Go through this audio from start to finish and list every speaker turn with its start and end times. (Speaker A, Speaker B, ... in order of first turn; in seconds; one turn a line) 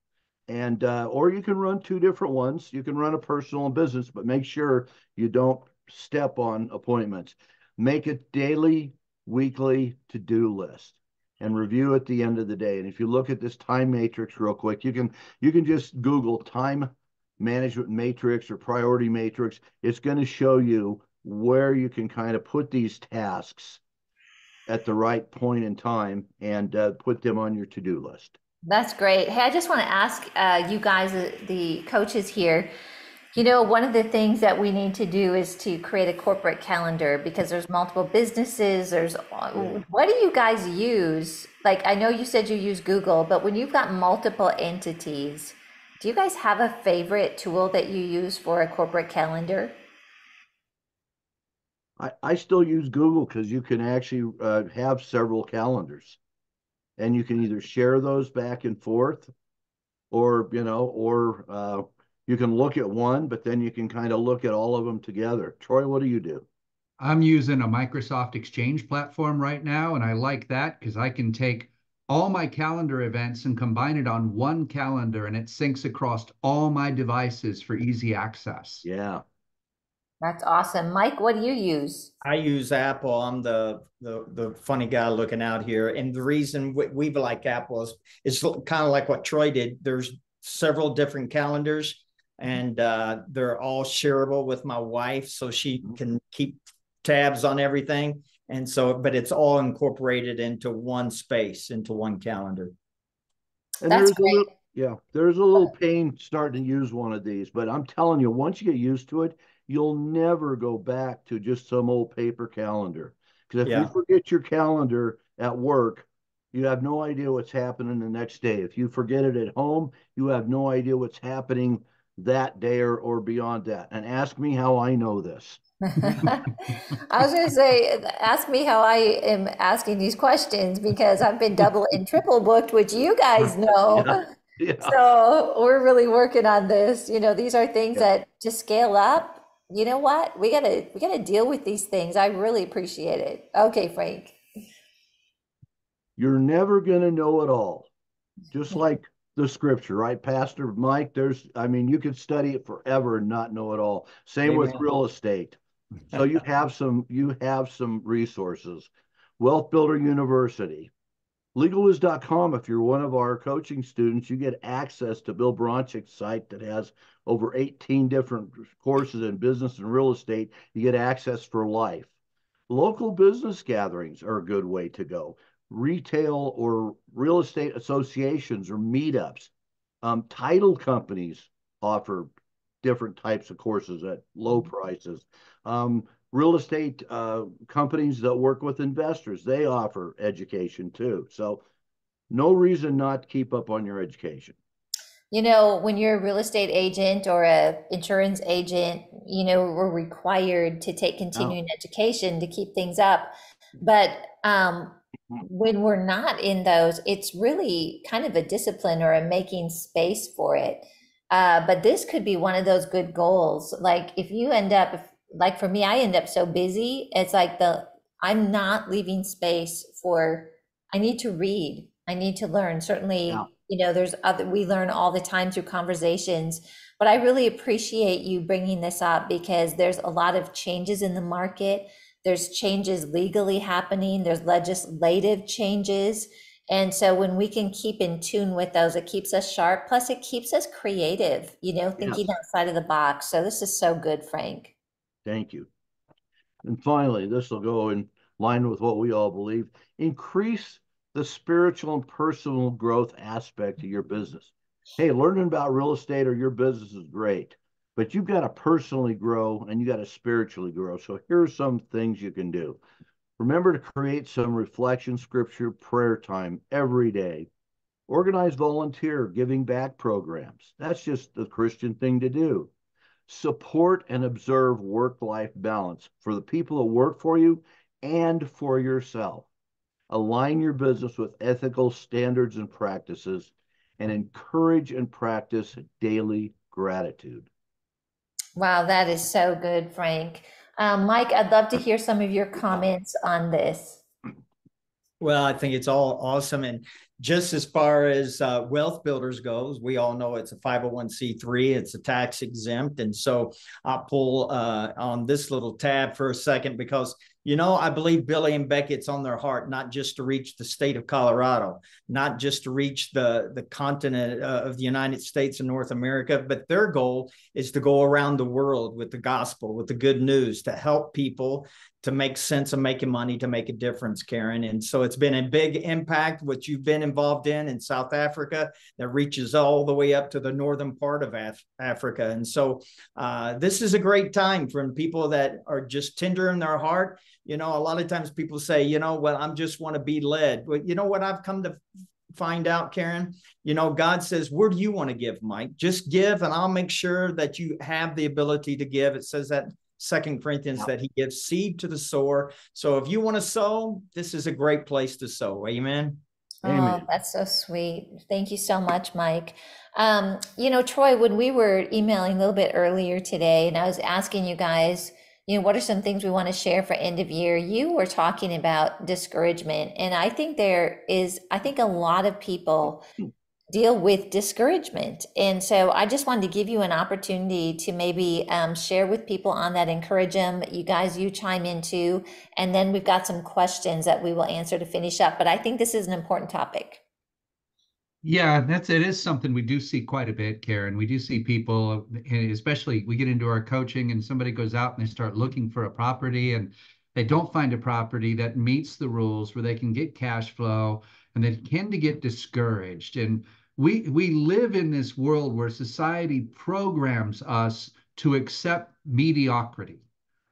Speaker A: 0.5-23.8
Speaker A: 24.7-28.4
Speaker B: 28.7-32.7
Speaker B: 33.4-49.8
Speaker A: 39.5-39.8
Speaker A: 52.0-56.2
Speaker A: 57.0-59.3
Speaker A: 60.1-66.5
Speaker C: 67.0-78.9
Speaker A: 78.8-79.2
Speaker B: 80.2-82.1
Speaker D: 82.2-102.7
Speaker A: 103.8-126.3
Speaker B: 103.9-104.5
Speaker D: 113.6-113.9
Speaker B: 125.9-134.2
Speaker A: 133.4-134.9
Speaker B: 134.8-144.4
Speaker A: 146.2-147.9
Speaker A: 148.5-155.6
Speaker D: 154.5-154.8
Speaker A: 156.1-160.9
Speaker A: 161.6-172.1
Speaker A: 172.7-179.5
Speaker A: 180.0-182.3
Speaker A: 182.8-191.6
Speaker A: 192.3-194.6
Speaker B: 195.3-244.8
Speaker A: 242.0-242.2
Speaker A: 245.3-245.7
Speaker A: 246.6-262.8
Speaker A: 263.4-267.5
Speaker A: 268.1-272.7
Speaker A: 273.3-279.5
Speaker A: 280.1-287.5
Speaker B: 288.6-294.0
Speaker D: 295.2-341.8
Speaker D: 342.3-356.2
Speaker B: 356.6-373.1
Speaker A: 356.6-357.1
Speaker B: 373.7-387.0
Speaker C: 388.2-410.0